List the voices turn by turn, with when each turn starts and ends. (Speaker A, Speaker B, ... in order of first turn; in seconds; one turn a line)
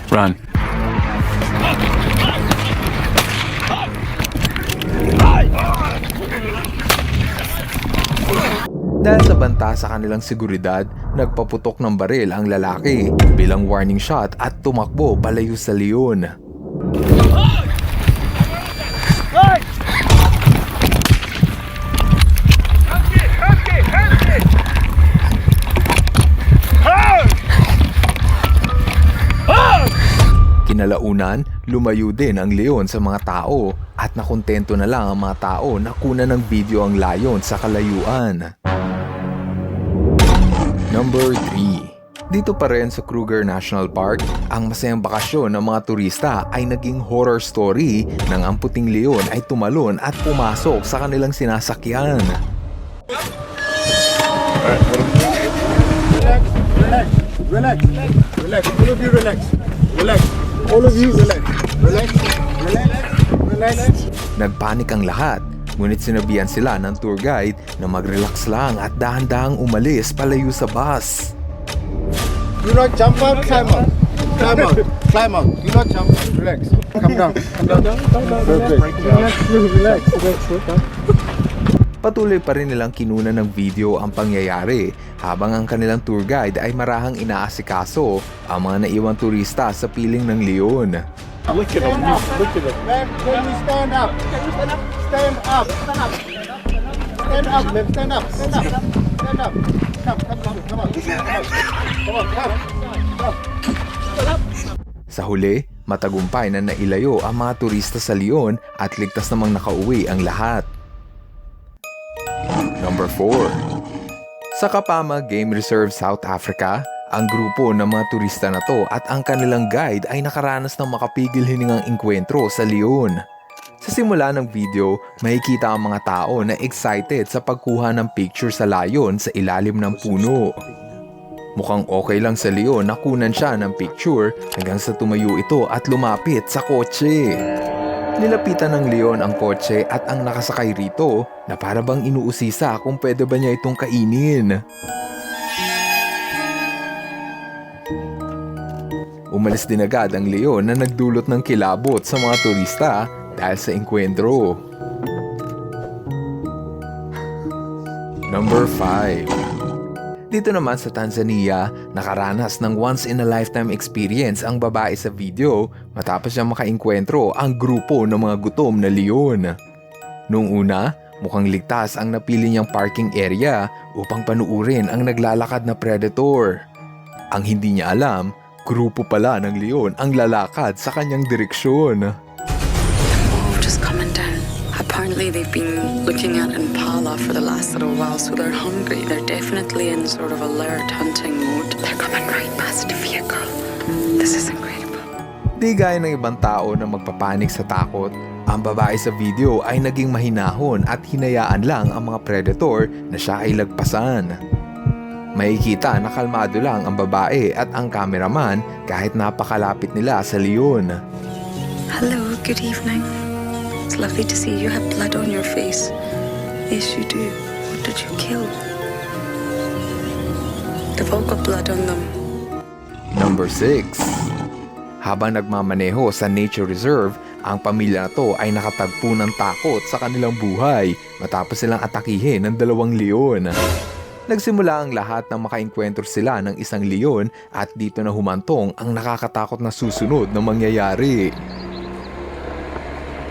Speaker A: 9.0-16.2
Speaker A: 30.6-38.4
Speaker A: 40.9-52.3
Speaker B: 57.6-57.8
Speaker B: 58.6-59.5
Speaker B: 60.0-62.9
Speaker B: 63.5-63.9
Speaker A: 64.4-71.3
Speaker B: 72.6-80.7
Speaker A: 82.0-91.0
Speaker B: 91.6-94.2
Speaker B: 95.1-95.7
Speaker B: 97.2-98.7
Speaker A: 105.1-110.7
Speaker A: 112.8-113.6
Speaker A: 114.5-123.2
Speaker A: 123.8-130.6
Speaker A: 131.6-137.3
Speaker A: 138.2-144.5
Speaker A: 149.3-154.6
Speaker A: 158.3-159.3
Speaker A: 160.3-169.5
Speaker A: 170.3-176.5
Speaker A: 177.3-182.1
Speaker C: 183.1-193.5
Speaker C: 194.2-195.1
Speaker A: 195.6-204.3
Speaker A: 205.4-210.9
Speaker C: 211.9-213.1
Speaker C: 213.9-215.9
Speaker C: 216.7-218.5
Speaker C: 221.0-222.1
Speaker A: 223.2-224.2
Speaker A: 225.0-233.5
Speaker A: 234.3-241.3